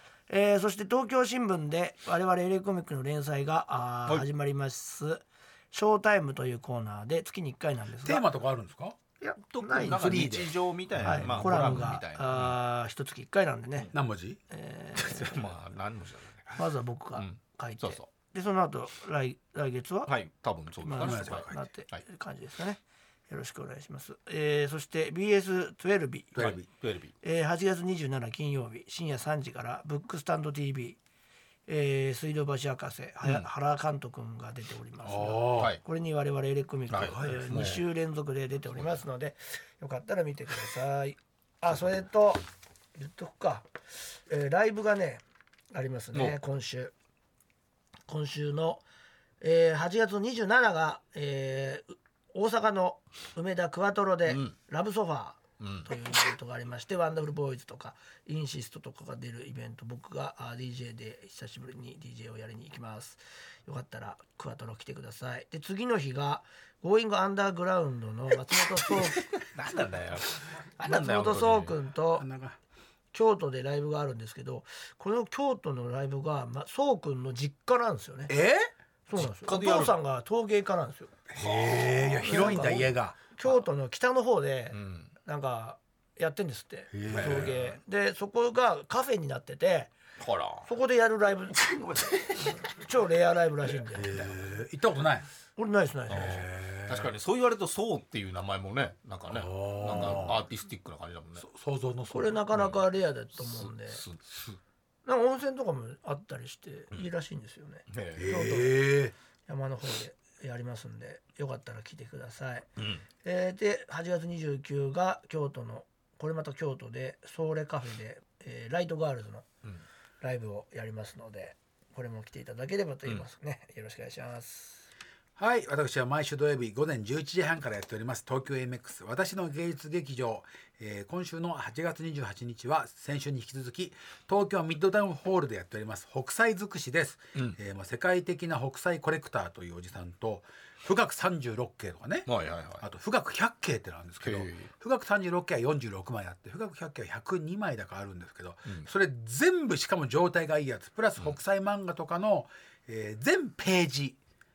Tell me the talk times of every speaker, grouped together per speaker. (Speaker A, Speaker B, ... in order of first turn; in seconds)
Speaker A: 0.3-8.2, 9.2-10.3, 11.0-13.9, 14.5-15.5, 16.6-20.1, 20.8-26.5, 27.2-31.0, 31.7-42.4, 43.0-45.2, 45.7-46.9, 48.1-48.8, 49.4-69.3, 70.8-72.2, 73.1-78.3, 79.1-89.9, 90.6-94.2, 95.6-96.5, 102.1-104.0, 105.0-108.8, 109.5-112.7, 113.2-119.5, 120.2-124.8
Speaker B: 8.0-9.0, 9.8-12.0, 13.9-14.4, 21.0-21.6, 26.4-26.6, 35.0-35.7, 72.2-72.6, 78.3-78.7, 81.3-83.2, 86.9-87.6, 93.9-95.3, 96.3-97.1, 99.3-100.4, 101.4-102.4, 108.2-109.1, 125.4-142.3, 142.8-154.2
Speaker C: 9.5-12.6, 14.9-16.6, 17.1-18.1, 20.1-22.0, 26.4-27.1, 36.9-37.8, 55.6-55.9, 68.8-71.8, 79.2-80.0, 84.7-85.1, 87.1-87.7, 90.2-90.7, 96.1-101.5, 102.5-102.8, 103.4-104.6, 107.9-108.5, 112.8-113.0, 142.2-142.8, 144.2-144.7